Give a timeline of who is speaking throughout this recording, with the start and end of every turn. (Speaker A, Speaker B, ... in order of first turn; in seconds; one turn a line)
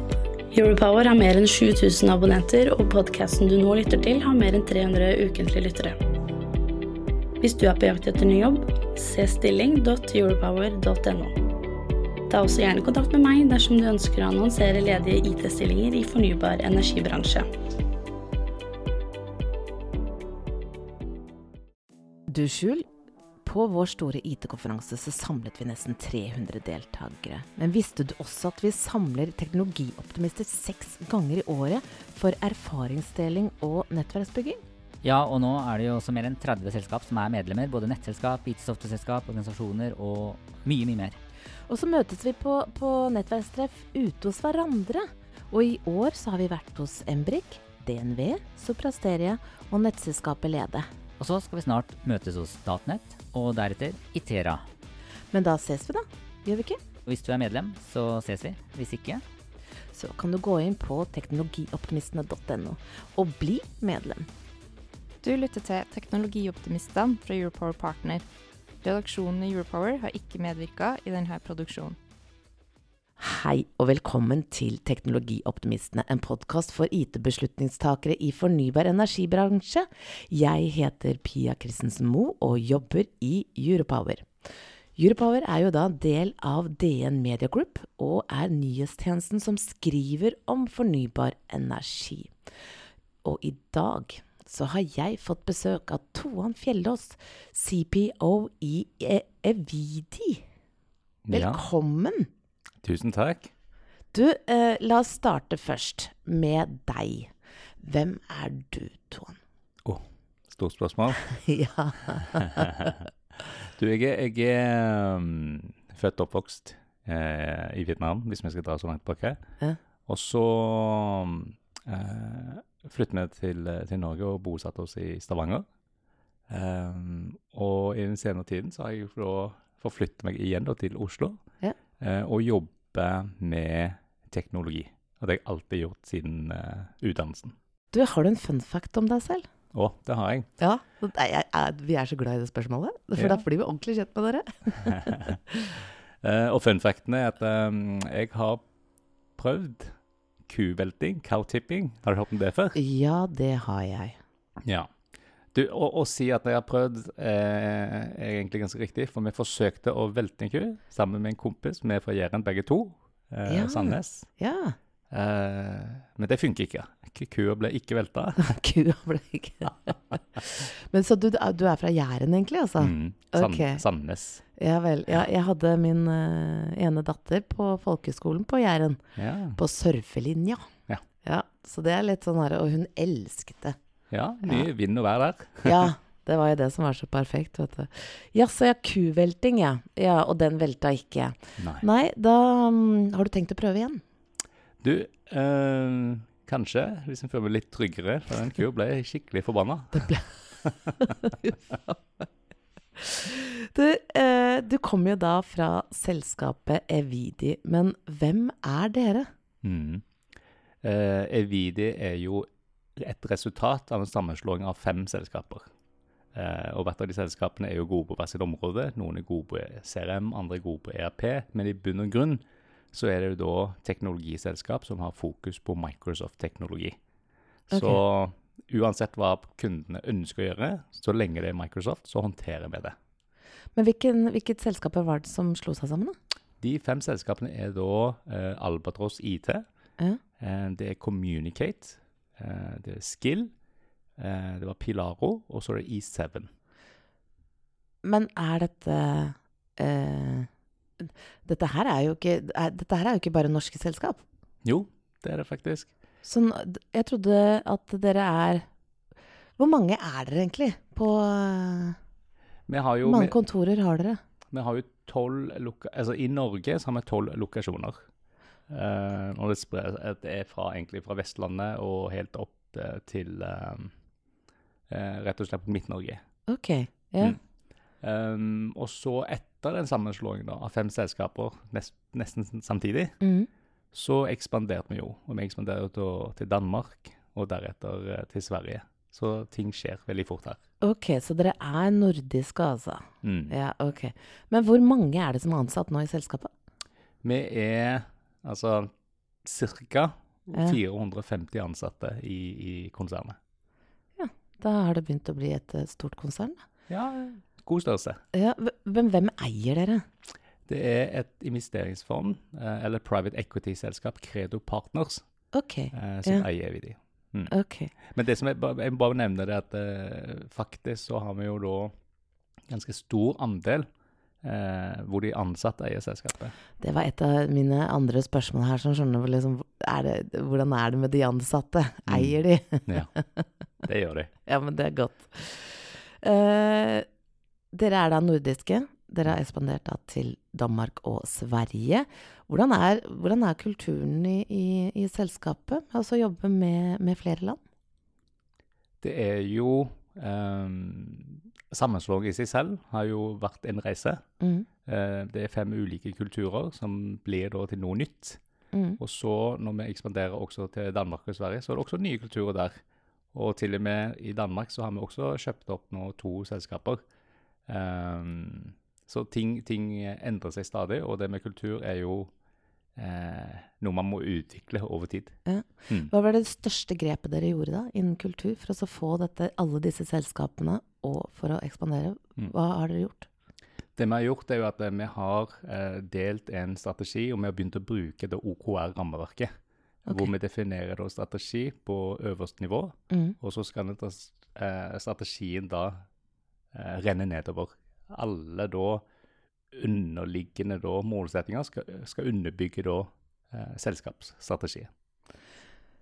Speaker A: 0.5-6.0
Speaker A: 7.4-11.4
Speaker A: 12.3-17.5
Speaker B: 22.3-22.9
Speaker B: 23.4-34.6
Speaker C: 35.0-41.2
Speaker B: 41.7-50.9
Speaker C: 51.2-54.6
Speaker B: 55.3-56.8
Speaker C: 57.1-59.2
Speaker B: 59.9-64.3
Speaker D: 65.2-68.2
Speaker D: 68.8-72.0
Speaker B: 73.2-84.3
Speaker B: 85.0-92.3
Speaker B: 93.2-100.4
Speaker E: 101.2-101.6
Speaker B: 101.3-102.3
Speaker E: 102.8-103.5
Speaker B: 104.1-109.4
Speaker E: 109.8-111.2
Speaker B: 111.3-113.0
Speaker E: 113.5-119.4
Speaker E: 120.0-125.6
Speaker E: 126.5-131.4
Speaker E: 132.0-137.6
Speaker B: 137.9-139.5
Speaker E: 139.7-140.5
Speaker B: 140.6-145.8
Speaker E: 143.2-143.4
Speaker E: 146.2-148.6
Speaker E: 149.4-150.0
Speaker E: 150.5-152.8
Speaker B: 152.8-154.2
Speaker E: 154.6-154.9
Speaker E: 155.5-164.3
Speaker B: 163.4-164.8
Speaker E: 165.1-168.6
Speaker B: 168.4-173.8
Speaker E: 172.8-174.4
Speaker B: 174.6-179.0
Speaker E: 179.2-179.6
Speaker B: 179.6-180.7
Speaker B: 181.2-183.8
Speaker E: 184.1-185.9
Speaker B: 185.6-194.0
Speaker E: 191.6-191.8
Speaker E: 194.8-201.1
Speaker B: 200.0-200.2
Speaker B: 200.8-202.2
Speaker B: 202.9-209.3
Speaker E: 209.6-210.0
Speaker E: 210.8-215.7
Speaker E: 216.3-227.0
Speaker E: 227.7-233.0
Speaker B: 227.7-228.0
Speaker B: 233.7-236.1
Speaker E: 236.6-239.6
Speaker E: 240.4-243.5
Speaker E: 244.2-246.5
Speaker B: 248.0-254.2
Speaker E: 254.6-255.9
Speaker B: 256.2-258.6
Speaker B: 259.6-262.0
Speaker E: 262.7-263.4
Speaker B: 263.0-264.2
Speaker E: 264.5-268.0
Speaker E: 268.7-273.9
Speaker E: 274.9-276.2
Speaker B: 276.5-277.4
Speaker E: 278.0-283.1
Speaker B: 283.2-283.5
Speaker E: 283.9-290.6
Speaker B: 290.8-296.5
Speaker E: 293.2-293.5
Speaker E: 297.2-298.9
Speaker E: 299.4-303.4
Speaker B: 304.2-306.6
Speaker E: 306.9-308.2
Speaker B: 308.3-310.0
Speaker E: 310.7-315.2
Speaker B: 315.5-316.4
Speaker E: 315.9-321.9
Speaker B: 317.5-317.9
Speaker E: 322.7-323.9
Speaker E: 324.4-326.5
Speaker B: 326.8-333.4
Speaker E: 332.1-332.3
Speaker E: 333.8-334.3
Speaker B: 334.4-337.1
Speaker B: 337.7-347.6
Speaker E: 349.0-354.2
Speaker B: 354.4-354.7
Speaker E: 354.8-358.4
Speaker B: 358.7-359.0
Speaker E: 359.0-362.8
Speaker E: 363.3-367.0
Speaker E: 367.7-372.3
Speaker E: 372.9-376.1
Speaker B: 375.4-383.3
Speaker E: 383.9-389.5
Speaker B: 390.1-390.3
Speaker E: 390.1-396.0
Speaker B: 393.1-393.4
Speaker E: 396.7-399.0
Speaker E: 399.7-404.9